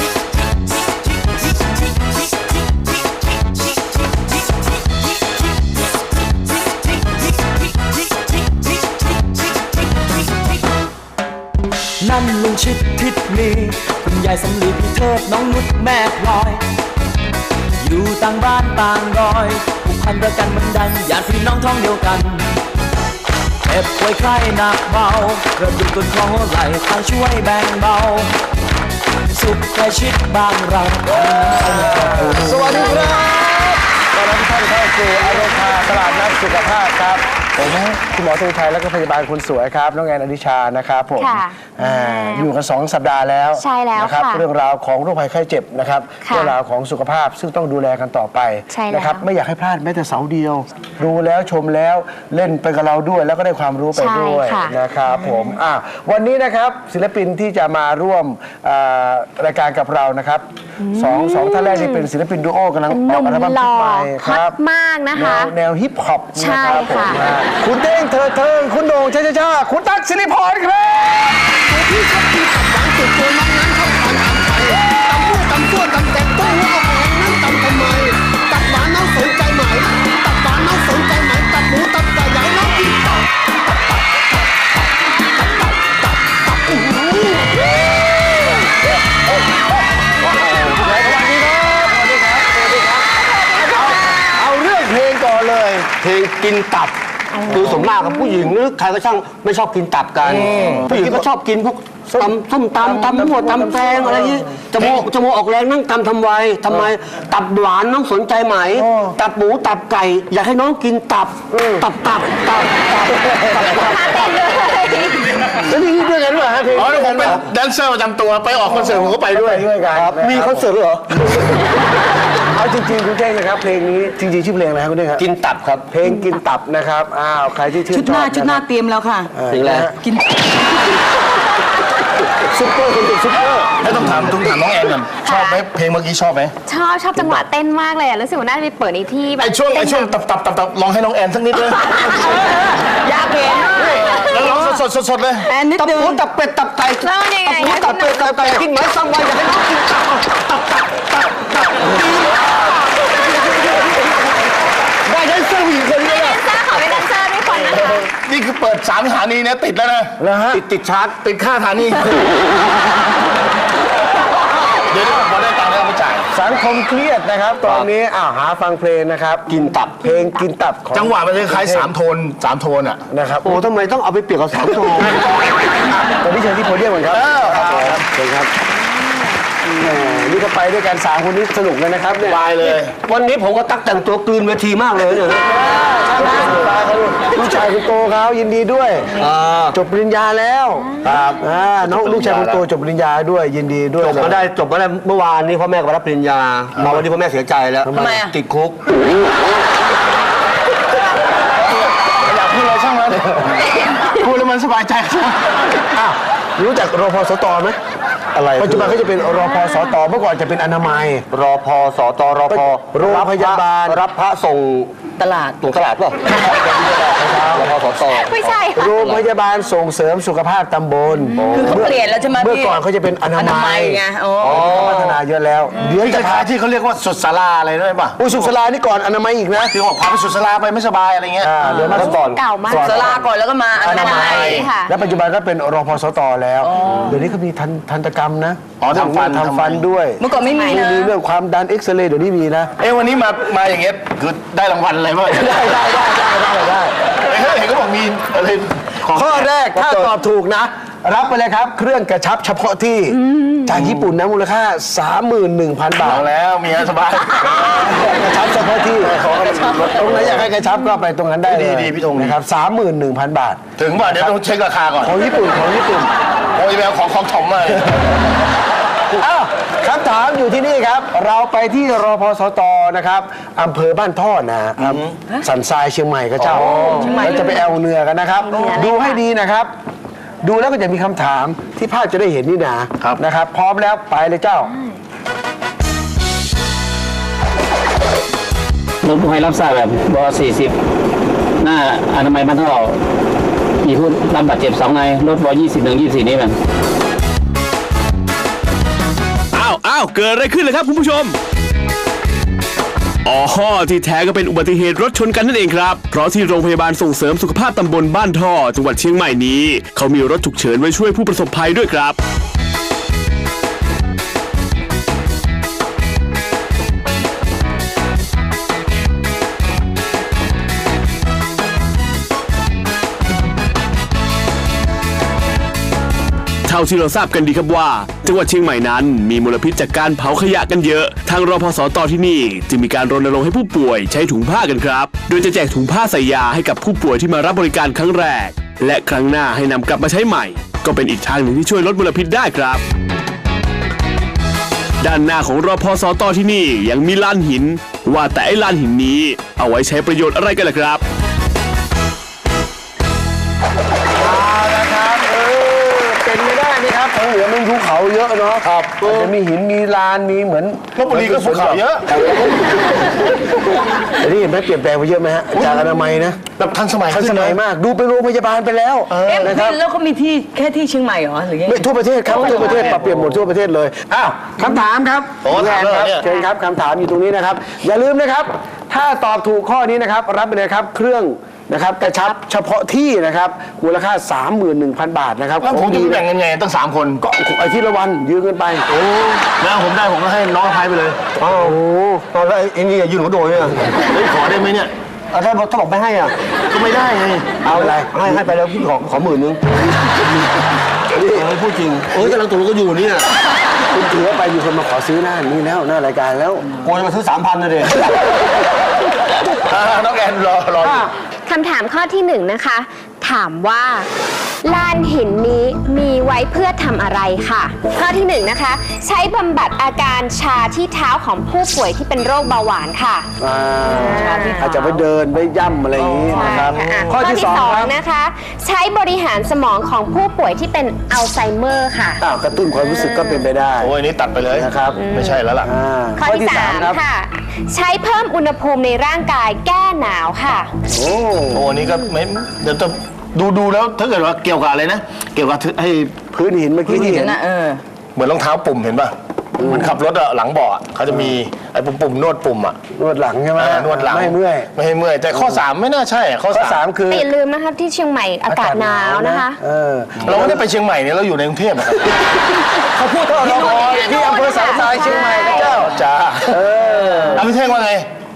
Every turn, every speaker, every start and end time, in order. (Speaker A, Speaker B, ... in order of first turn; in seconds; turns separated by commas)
Speaker A: 6.8-10.4, Speaker A: 12.0-16.6, Speaker A: 17.8-22.5, Speaker A: 23.6-28.3, Speaker A: 29.3-32.8, Speaker B: 31.3-37.2, Speaker C: 33.1-33.4, Speaker D: 37.6-38.0, Speaker B: 38.0-64.5, Speaker C: 41.2-42.5, Speaker C: 43.6-44.4, Speaker C: 46.2-46.5, Speaker C: 48.7-49.2, Speaker C: 54.0-54.7, Speaker C: 60.8-62.0, Speaker C: 62.9-65.5, Speaker B: 65.1-71.5, Speaker C: 66.3-67.2, Speaker E: 71.6-83.1, Speaker D: 90.2-92.3, Speaker B: 90.6-93.0, Speaker C: 93.4-94.3, Speaker D: 93.8-95.8, Speaker F: 95.9-96.9, Speaker C: 97.4-98.4, Speaker F: 97.5-114.4, Speaker D: 100.5-100.8, Speaker B: 100.8-101.2, Speaker B: 102.8-104.5, Speaker B: 108.8-109.2, Speaker B: 111.5-111.9, Speaker B: 113.3-113.5, Speaker C: 113.7-115.4, Speaker B: 115.6-117.4, Speaker D: 116.7-119.6, Speaker B: 118.7-120.7, Speaker F: 119.9-121.2, Speaker B: 122.4-125.2, Speaker F: 125.2-125.9, Speaker B: 125.9-128.6, Speaker G: 127.9-129.3, Speaker B: 129.3-129.9, Speaker F: 129.5-129.9, Speaker G: 130.0-130.5, Speaker B: 132.5-133.9, Speaker D: 133.8-136.5, Speaker C: 135.2-135.6, Speaker C: 136.7-140.2, Speaker D: 139.4-142.1, Speaker G: 141.9-144.6, Speaker C: 143.7-144.6, Speaker D: 143.8-145.5, Speaker G: 145.5-146.2, Speaker F: 145.8-150.4, Speaker C: 147.0-148.5, Speaker F: 151.8-152.1, Speaker C: 152.3-153.8, Speaker F: 155.2-156.2, Speaker C: 156.0-158.1, Speaker D: 157.6-160.2, Speaker B: 160.2-160.6, Speaker F: 160.5-161.2, Speaker D: 161.1-162.1, Speaker D: 164.9-166.3, Speaker B: 166.3-169.5, Speaker F: 169.5-170.0, Speaker B: 170.0-171.9, Speaker D: 170.9-173.0, Speaker B: 173.1-173.6, Speaker F: 173.4-175.2, Speaker B: 176.1-178.5, Speaker D: 177.1-178.0, Speaker B: 179.8-182.4, Speaker D: 182.2-182.9, Speaker F: 182.8-185.5, Speaker B: 185.4-194.4, Speaker D: 186.2-187.4, Speaker F: 186.2-186.7, Speaker F: 189.1-189.8, Speaker D: 191.0-192.6, Speaker F: 194.0-198.8, Speaker B: 197.8-198.2, Speaker G: 197.9-198.3, Speaker D: 201.7-205.6, Speaker B: 205.9-207.8, Speaker F: 208.3-209.0, Speaker B: 208.6-211.2, Speaker C: 209.4-209.8, Speaker F: 211.3-214.9, Speaker B: 212.5-214.0, Speaker G: 215.2-215.6, Speaker F: 215.6-216.2, Speaker B: 216.4-217.9, Speaker F: 217.3-219.2, Speaker C: 218.1-219.0, Speaker B: 218.8-226.4, Speaker F: 221.3-221.8, Speaker G: 221.5-222.8, Speaker G: 223.3-225.0, Speaker F: 224.4-225.2, Speaker D: 225.9-228.2, Speaker B: 228.2-229.7, Speaker D: 229.7-231.5, Speaker B: 231.4-233.2, Speaker C: 231.7-233.1, Speaker F: 231.7-232.4, Speaker G: 232.7-234.7, Speaker B: 233.8-242.7, Speaker C: 233.9-234.9, Speaker D: 234.2-234.7, Speaker G: 236.6-237.3, Speaker D: 238.8-239.8, Speaker G: 240.2-241.1, Speaker C: 240.3-240.8, Speaker D: 242.8-245.5, Speaker B: 245.3-247.0, Speaker D: 247.2-250.1, Speaker B: 249.1-256.2, Speaker C: 253.1-253.7, Speaker D: 256.0-257.9, Speaker B: 257.6-259.1, Speaker D: 259.0-260.5, Speaker B: 259.9-264.3, Speaker D: 261.4-262.4, Speaker D: 263.8-265.1, Speaker B: 265.0-266.1, Speaker D: 266.5-267.9, Speaker B: 267.8-268.1, Speaker B: 269.2-279.7, Speaker D: 274.8-275.1, Speaker F: 276.5-277.2, Speaker G: 276.9-277.6, Speaker C: 277.1-277.5, Speaker C: 278.4-279.2, Speaker B: 280.4-284.7, Speaker H: 289.0-290.8, Speaker H: 291.6-293.0, Speaker H: 293.8-296.6, Speaker I: 299.5-301.3, Speaker I: 303.2-312.2, Speaker I: 326.6-342.8, Speaker I: 345.0-351.0, Speaker B: 354.1-361.8, Speaker F: 358.8-359.3, Speaker D: 360.9-362.1, Speaker B: 364.2-366.4, Speaker D: 366.5-367.6, Speaker B: 367.1-369.8, Speaker D: 369.1-369.6, Speaker G: 369.2-372.9, Speaker B: 371.6-386.2, Speaker D: 372.4-373.0, Speaker D: 375.4-376.2, Speaker D: 385.6-387.2, Speaker B: 387.2-388.9, Speaker F: 388.9-389.4, Speaker D: 389.5-391.2, Speaker F: 391.4-391.8, Speaker B: 391.5-392.2, Speaker F: 392.3-393.9, Speaker D: 394.0-394.9, Speaker F: 395.3-396.3, Speaker D: 396.7-397.6, Speaker F: 397.6-399.6, Speaker B: 397.6-398.4, Speaker B: 401.1-401.5, Speaker F: 401.2-403.3, Speaker B: 403.9-406.6, Speaker F: 406.8-408.0, Speaker D: 409.6-411.1, Speaker B: 410.8-411.1, Speaker C: 411.5-414.1, Speaker C: 414.6-423.3, Speaker B: 423.4-427.9, Speaker C: 423.8-424.8, Speaker G: 423.9-425.0, Speaker G: 425.9-427.1, Speaker C: 426.3-432.2, Speaker D: 426.4-427.0, Speaker B: 432.2-433.9, Speaker C: 432.9-433.4, Speaker D: 433.8-435.7, Speaker B: 434.5-435.0, Speaker C: 435.0-435.4, Speaker B: 435.6-437.0, Speaker C: 436.2-440.7, Speaker B: 440.9-441.7, Speaker D: 441.5-446.2, Speaker B: 446.3-447.4, Speaker G: 446.9-447.8, Speaker D: 448.1-452.8, Speaker B: 449.6-449.9, Speaker B: 452.9-454.7, Speaker D: 453.6-456.8, Speaker B: 456.5-457.3, Speaker C: 457.1-459.6, Speaker B: 458.5-460.6, Speaker D: 460.2-462.1, Speaker G: 462.9-465.1, Speaker B: 463.2-465.9, Speaker C: 463.4-465.8, Speaker D: 465.8-466.6, Speaker B: 466.5-467.5, Speaker D: 467.4-468.1